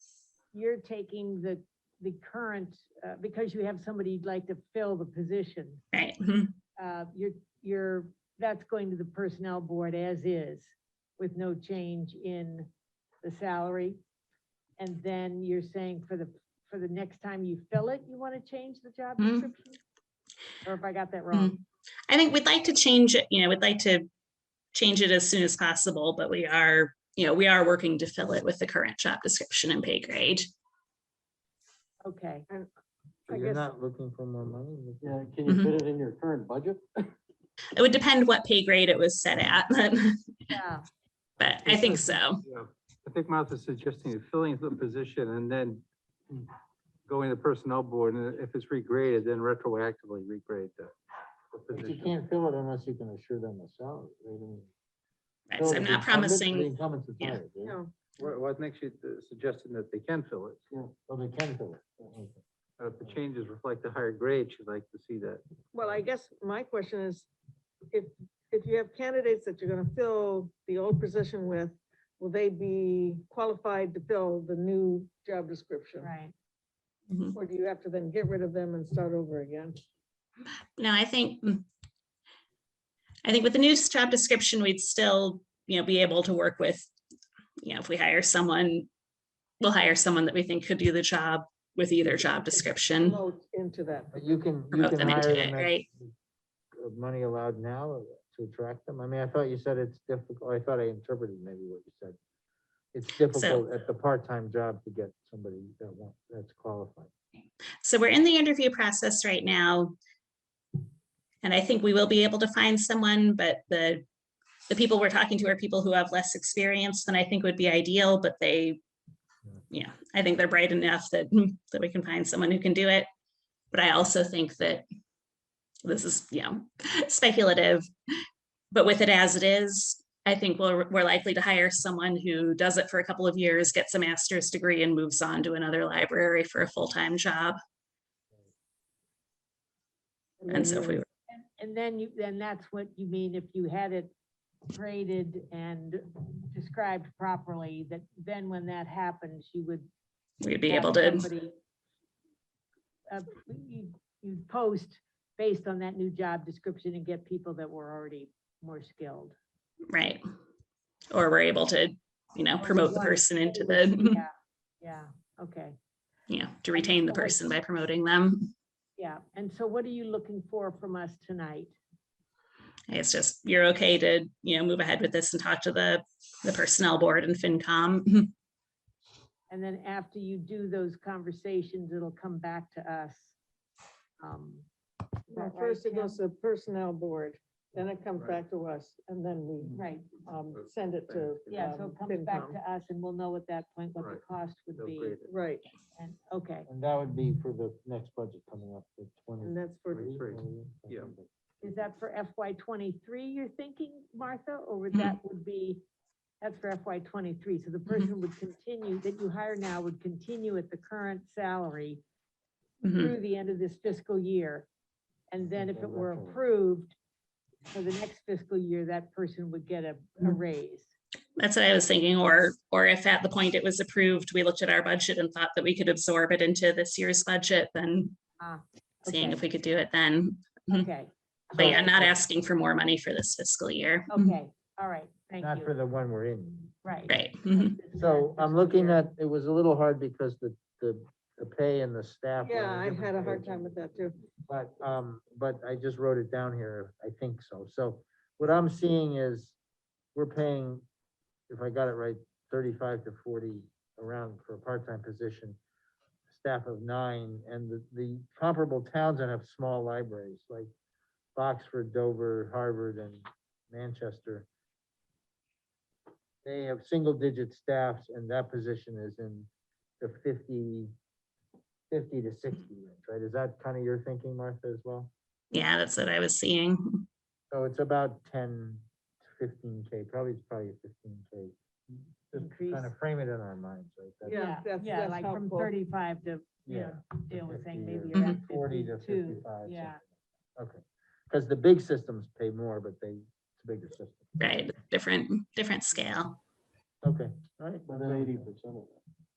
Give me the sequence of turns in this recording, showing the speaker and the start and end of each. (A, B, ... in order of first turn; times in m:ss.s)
0:00.5-0:05.8 A
0:05.9-0:06.6 B
0:06.8-0:12.7 A
0:13.2-0:14.0 A
0:14.8-0:19.8 A
0:19.2-0:19.5 B
0:20.6-0:21.6 A
0:21.3-0:24.1 B
0:24.7-0:30.5 B
0:32.0-0:32.5 A
0:33.3-0:35.3 C
0:33.3-0:33.7 D
0:35.0-0:36.8 E
0:35.5-0:35.8 B
0:37.7-0:40.3 B
0:40.5-0:40.8 A
0:41.4-0:42.4 B
0:42.4-0:46.5 F
0:47.1-0:50.9 F
0:51.5-0:52.1 F
0:51.7-0:54.7 C
0:55.5-0:57.4 B
0:55.6-0:57.8 C
0:57.6-0:57.9 D
0:58.2-1:00.6 F
1:01.0-1:02.4 C
1:02.8-1:05.4 F
1:05.7-1:07.3 D
1:07.9-1:16.1 D
1:16.0-1:16.3 A
1:17.1-1:17.4 B
1:17.3-1:19.8 D
1:20.8-1:21.6 B
1:23.2-1:26.9 B
1:27.6-1:28.9 B
1:29.6-1:33.2 B
1:32.5-1:34.3 D
1:34.1-1:36.1 C
1:34.7-1:35.8 B
1:36.7-1:42.2 C
1:42.9-1:47.1 C
1:43.3-1:43.6 B
1:47.8-1:49.9 B
1:51.4-1:54.0 B
1:54.7-1:58.8 B
1:59.7-2:03.1 B
2:03.7-2:04.8 B
2:05.8-2:07.8 B
2:08.7-2:17.6 B
2:20.4-2:21.0 D
2:20.5-2:21.0 B
2:21.3-2:24.1 A
2:24.7-2:29.9 A
2:30.4-2:31.3 B
2:30.7-2:31.5 A
2:33.1-2:39.4 A
2:39.9-2:40.2 B
2:41.1-2:44.2 B
2:42.6-2:45.8 A
2:46.3-2:48.5 B
2:46.7-2:47.5 A
2:49.0-2:51.7 A
2:52.9-2:58.3 B
2:59.5-3:03.4 A
3:04.2-3:04.7 A
3:05.3-3:06.2 A
3:05.3-3:12.6 D
3:09.7-3:10.2 A
3:11.1-3:11.5 F
3:11.5-3:15.2 A
3:14.8-3:15.3 F
3:15.3-3:15.6 D
3:15.9-3:16.7 A
3:16.7-3:21.2 C
3:19.4-3:20.2 D
3:20.2-3:21.1 F
3:21.6-3:25.8 A
3:26.4-3:32.0 A
3:32.8-3:33.1 B
3:32.9-3:34.7 A
3:35.3-3:37.0 A
3:35.5-3:36.4 C
3:37.7-3:40.9 A
3:41.4-3:48.2 B
3:48.4-3:49.4 A
3:49.1-3:50.9 B
3:50.7-3:51.9 A
3:51.5-3:54.3 B
3:51.6-3:52.2 C
3:54.1-3:55.7 A
3:55.4-3:56.7 C
3:56.8-3:59.0 A
3:57.1-3:57.8 B
3:57.9-4:03.9 C
4:02.4-4:04.2 D
4:04.4-4:09.6 C
4:10.1-4:10.8 C
4:11.5-4:15.6 C
4:16.3-4:20.7 C
4:21.4-4:24.5 C
4:26.4-4:29.5 C
4:30.0-4:30.9 C
4:31.9-4:35.1 C
4:35.5-4:37.0 B
4:37.5-4:44.4 C
4:42.3-4:42.9 A
4:44.2-4:45.7 D
4:44.3-4:50.0 A
4:46.6-4:50.0 C
4:48.1-4:48.4 B
4:50.6-4:54.4 C
4:54.4-4:56.4 B
4:57.0-4:58.5 C
4:57.8-4:59.0 E